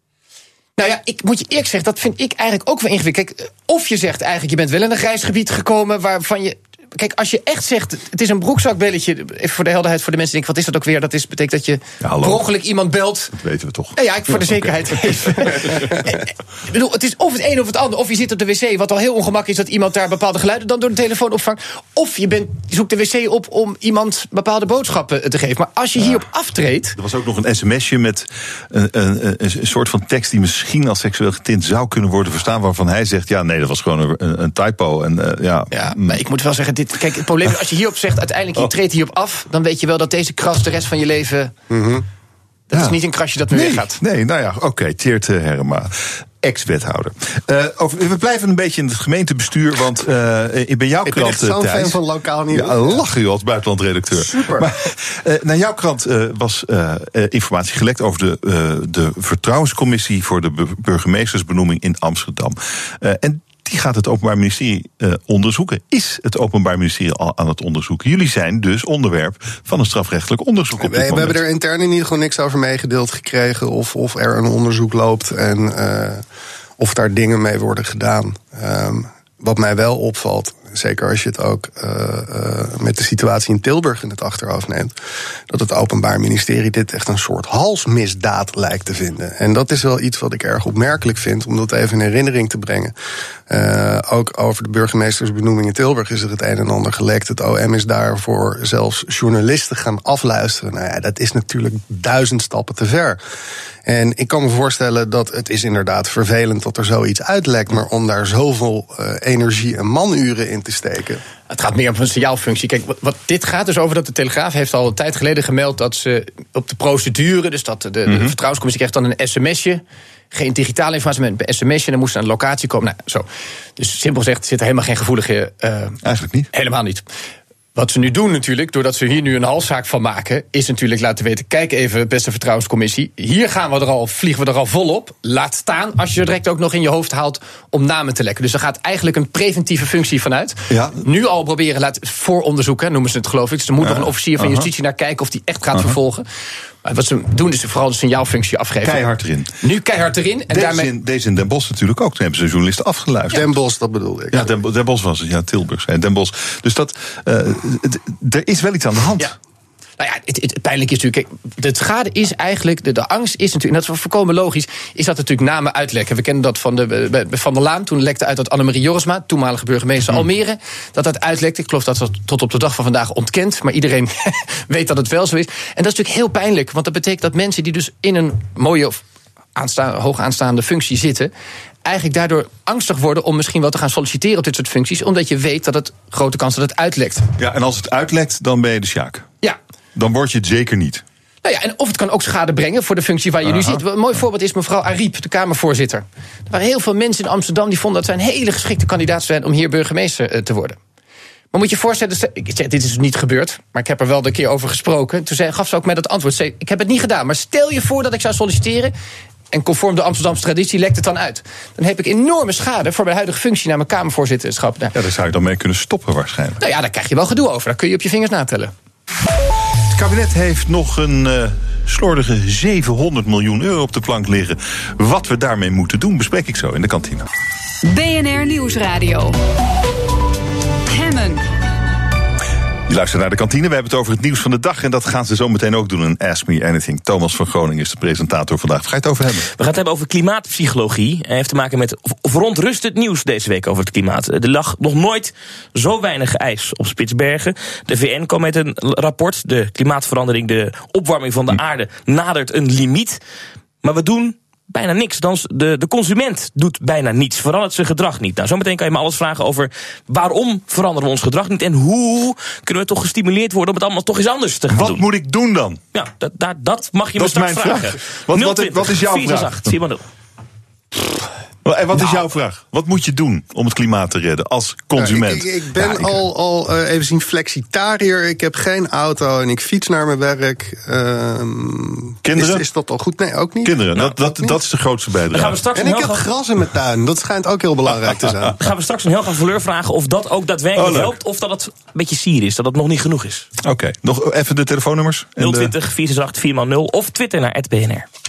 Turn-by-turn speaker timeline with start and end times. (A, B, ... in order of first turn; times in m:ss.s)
0:00.8-0:13.3 A
0:12.0-0:12.4 B
0:13.3-0:14.7 B
0:14.0-0:27.0 A
0:15.4-0:15.9 B
0:27.0-0:36.2 B
0:35.7-0:41.5 A
0:41.7-0:42.0 C
0:42.7-0:44.0 A
0:43.5-1:11.4 B
0:51.1-0:53.0 C
1:10.8-1:16.2 C
1:16.8-1:24.9 C
1:25.5-1:32.9 C
1:33.5-1:43.2 C
1:43.9-1:51.2 C
1:51.5-2:03.3 A
2:03.8-2:06.0 A
2:06.0-2:06.5 B
2:06.5-2:07.0 A
2:07.8-2:26.2 A
2:20.7-2:21.0 B
2:23.8-2:24.6 B
2:26.8-2:29.1 A
2:28.8-2:29.5 B
2:29.6-2:30.9 A
2:30.5-2:33.5 B
2:33.3-2:34.5 C
2:34.3-2:39.3 B
2:40.0-2:59.0 A
2:59.6-3:01.3 A
3:01.8-3:07.2 A
3:07.4-3:09.3 B
3:09.9-3:11.0 B
3:11.4-3:20.8 A
3:13.4-3:13.8 B
3:21.5-3:28.9 A
3:29.5-3:34.9 A
3:34.9-3:36.6 B
3:36.6-3:38.7 A
3:39.9-3:47.3 B
3:47.8-3:49.4 D
3:50.9-3:51.4 D
3:52.9-3:59.4 B
3:59.5-4:13.2 E
4:13.8-4:25.1 E
4:24.7-4:25.8 B
4:25.9-4:30.0 E
4:27.2-4:29.7 B
4:31.6-4:36.2 B
4:35.0-4:43.8 C
4:42.2-4:42.6 B
4:43.6-4:45.6 B
4:45.3-4:46.3 E
4:45.7-4:48.6 C
4:48.6-4:53.5 E
4:50.8-4:51.2 B
4:53.6-4:55.7 B
4:55.4-4:58.1 E